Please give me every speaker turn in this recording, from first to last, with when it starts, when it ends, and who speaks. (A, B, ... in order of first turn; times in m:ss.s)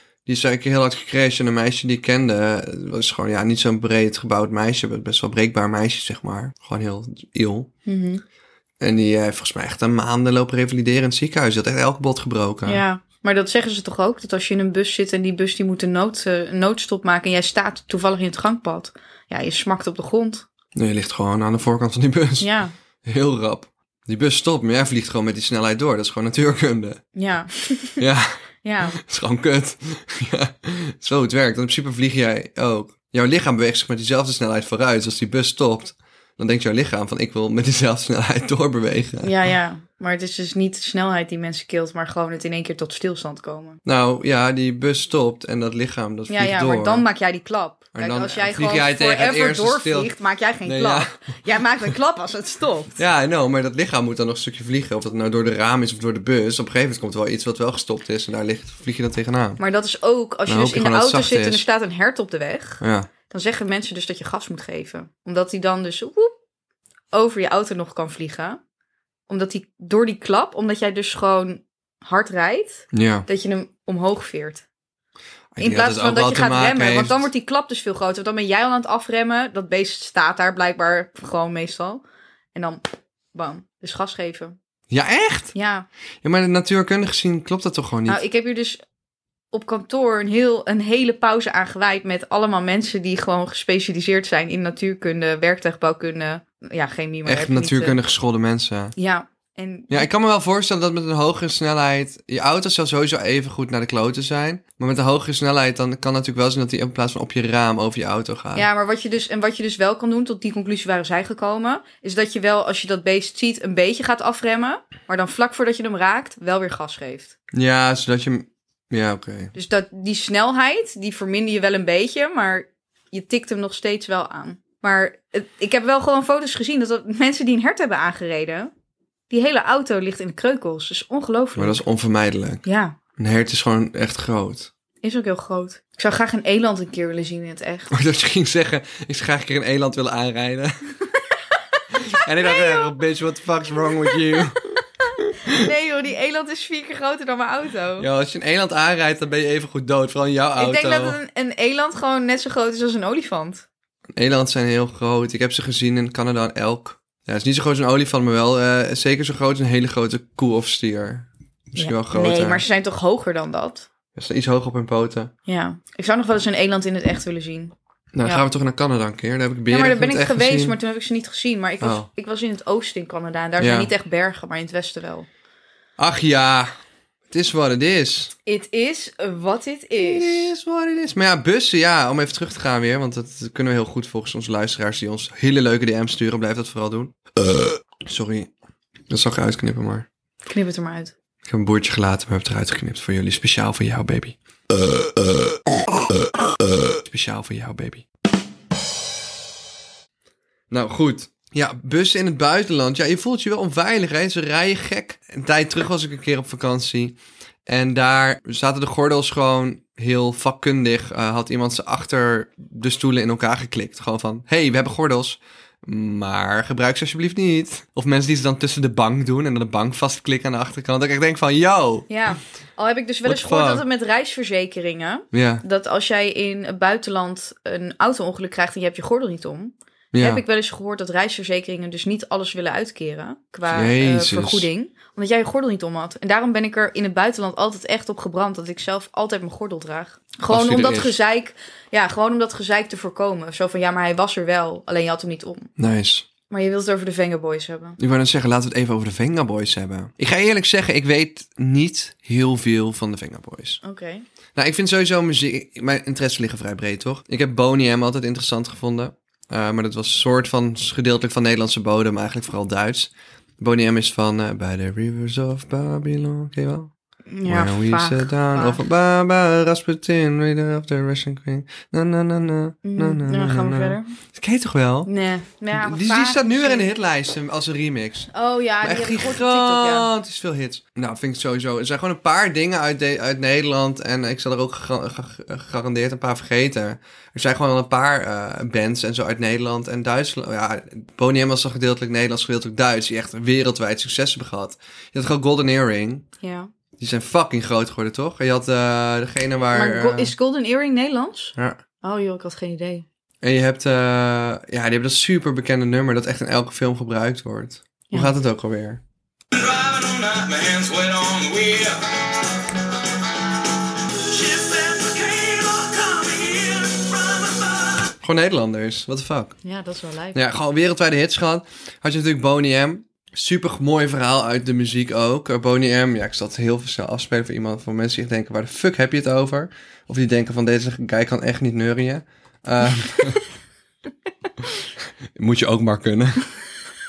0:00.2-0:07.7 A
0:07.8-0:08.2 B
0:08.8-0:12.8 A
0:12.6-0:20.4 B
0:20.7-0:22.5 A
0:22.4-0:22.7 B
0:23.0-0:27.0 A
0:27.1-0:28.0 B
0:28.0-0:39.5 A
0:28.6-0:29.0 B
0:39.2-0:43.8 B
0:43.8-0:47.0 A
0:46.3-0:53.0 B
0:47.9-0:50.1 A
0:50.6-0:51.3 A
0:53.0-0:59.6 A
0:59.6-1:06.3 B
1:00.5-1:01.6 A
1:02.8-1:03.1 A
1:07.1-1:08.6 B
1:09.3-1:14.6 B
1:12.9-1:13.3 A
1:15.5-1:17.3 A
1:15.6-1:22.0 B
1:22.5-1:24.6 B
1:24.9-1:25.5 A
1:25.5-1:25.9 B
1:26.2-1:28.2 A
1:28.1-1:28.8 B
1:29.5-1:38.0 B
1:37.2-1:39.0 A
1:39.0-1:40.1 B
1:39.9-1:48.7 A
1:48.5-1:57.3 B
1:57.5-1:59.5 A
1:59.5-2:08.7 B
2:09.3-2:11.8 B
2:11.6-2:12.6 A
2:12.6-2:13.0 B
2:13.2-2:14.7 A
2:15.0-2:17.9 B
2:17.9-2:20.8 A
2:21.8-2:23.0 B
2:21.9-2:24.6 A
2:23.8-2:24.4 B
2:25.2-2:25.6 A
2:25.4-2:28.1 B
2:28.0-2:31.2 A
2:30.6-2:33.6 B
2:34.2-2:42.6 A
2:41.8-2:43.9 B
2:44.1-2:45.3 A
2:45.4-2:48.4 B
2:48.1-2:50.8 A
2:49.7-2:55.3 B
2:51.8-2:52.1 A
2:53.6-2:53.9 A
2:56.0-2:56.7 A
2:57.3-2:58.3 A
2:58.4-3:00.5 B
3:00.0-3:08.5 A
3:09.1-3:10.1 A
3:10.4-3:11.1 B
3:11.5-3:14.9 A
3:16.9-3:18.0 A
3:20.7-3:27.2 A
3:27.7-3:42.1 A
3:42.1-4:05.7 B
3:43.2-3:43.8 A
3:45.3-3:45.6 A
3:50.1-3:50.4 A
3:53.7-3:54.7 A
4:00.5-4:01.1 A
4:05.8-4:06.2 A
4:06.5-4:08.0 B
4:08.0-4:13.8 A
4:13.8-4:14.2 B
4:14.5-4:26.9 A
4:27.3-4:28.8 B
4:27.4-4:35.1 A
4:32.8-4:34.1 B
4:35.0-4:36.9 B
4:35.7-4:56.3 A
4:38.3-4:40.1 B
4:56.4-4:56.7 B
4:57.0-5:00.3 A
4:59.7-5:03.0 B
5:03.4-5:09.0 A
5:09.5-5:12.0 C
5:14.2-5:18.0 C
5:18.2-5:19.6 A
5:19.6-5:20.4 B
5:20.3-5:33.4 A
5:35.4-5:36.5 A